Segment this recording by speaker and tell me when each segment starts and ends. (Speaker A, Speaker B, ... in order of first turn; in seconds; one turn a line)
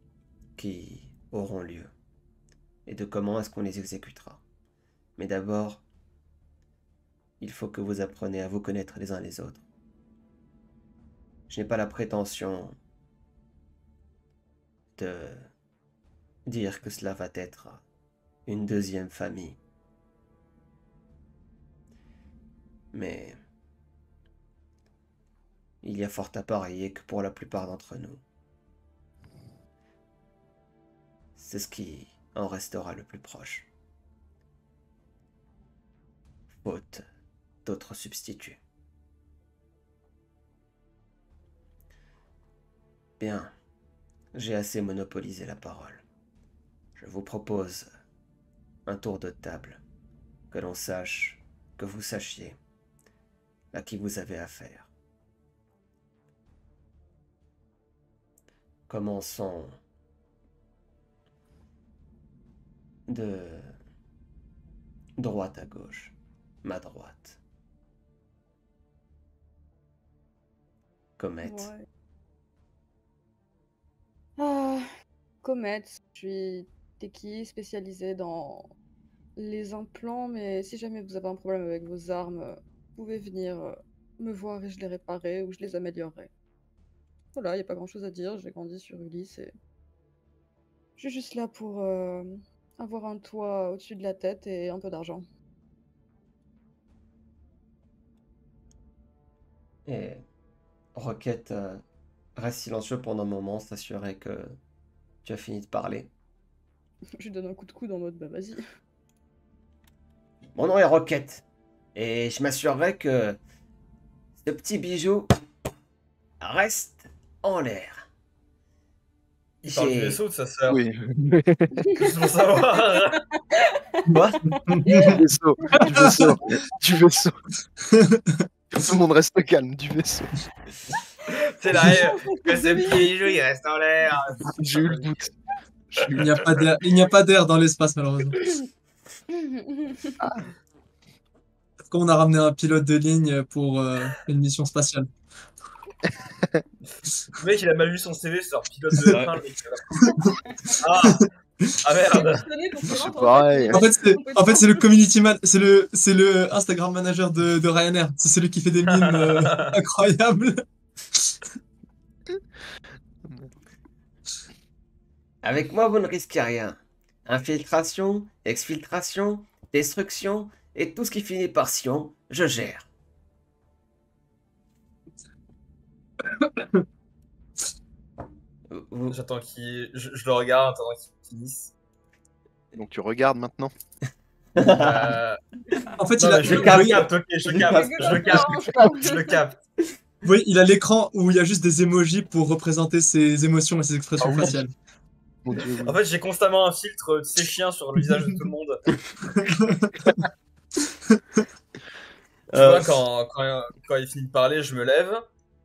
Speaker A: 0.6-1.9
Speaker A: 2.9-4.4
Speaker A: 5.2-5.8
Speaker A: 7.4-9.6
Speaker A: 11.5-12.8
Speaker A: 14.9-15.5
Speaker A: 16.4-17.8
Speaker A: 18.5-19.6
Speaker A: 22.9-23.4
Speaker A: 25.8-28.2
Speaker A: 31.4-33.7
Speaker A: 36.6-37.0
Speaker A: 37.6-38.6
Speaker A: 43.2-43.5
Speaker A: 44.3-46.0
Speaker A: 47.0-47.9
Speaker A: 48.9-49.8
Speaker A: 50.5-52.6
Speaker A: 53.7-54.9
Speaker A: 58.9-59.8
Speaker A: 63.1-63.8
Speaker A: 65.2-67.4
Speaker A: 71.2-71.7
Speaker B: 71.4-71.8
Speaker B: 74.4-74.8
Speaker B: 75.4-78.7
Speaker B: 79.4-86.3
Speaker B: 87.3-89.5
Speaker B: 91.0-95.2
Speaker A: 99.8-100.2
Speaker A: 100.9-101.8
Speaker A: 102.3-104.6
Speaker A: 105.2-106.1
Speaker B: 107.2-108.6
Speaker A: 110.5-113.4
Speaker A: 114.4-115.3
Speaker A: 116.4-118.0
Speaker A: 119.6-120.2
Speaker C: 119.6-120.8
Speaker D: 120.7-122.1
Speaker C: 122.0-123.2
Speaker B: 123.5-125.1
Speaker E: 124.1-126.3
Speaker D: 125.0-127.4
Speaker E: 127.8-128.4
Speaker D: 128.7-130.4
Speaker C: 131.3-135.1
Speaker B: 131.7-133.3
Speaker D: 134.4-135.3
Speaker D: 135.9-136.6
Speaker E: 136.1-138.4
Speaker B: 139.4-140.1
Speaker D: 140.2-140.5
Speaker E: 141.9-145.1
Speaker D: 146.0-146.6
Speaker C: 147.4-150.1
Speaker D: 149.1-149.4
Speaker E: 150.0-152.2
Speaker B: 150.3-150.5
Speaker C: 150.8-151.3
Speaker C: 151.8-152.4
Speaker B: 152.1-154.8
Speaker D: 152.9-153.8
Speaker E: 153.7-161.3
Speaker C: 158.9-159.7
Speaker D: 163.2-163.5
Speaker A: 165.4-172.9
Speaker E: 176.2-176.8
Speaker A: 178.7-179.2
Speaker C: 179.1-181.7
Speaker D: 182.7-183.7
Speaker A: 184.6-185.2
Speaker C: 184.8-185.4
Speaker E: 186.0-187.1
Speaker C: 186.2-189.6
Speaker A: 186.4-188.6
Speaker B: 187.6-189.3
Speaker E: 190.2-194.7
Speaker D: 194.2-194.6
Speaker D: 195.4-196.0
Speaker C: 195.8-198.8
Speaker E: 199.3-200.2
Speaker E: 201.1-201.4
Speaker A: 202.5-202.9
Speaker C: 202.5-205.2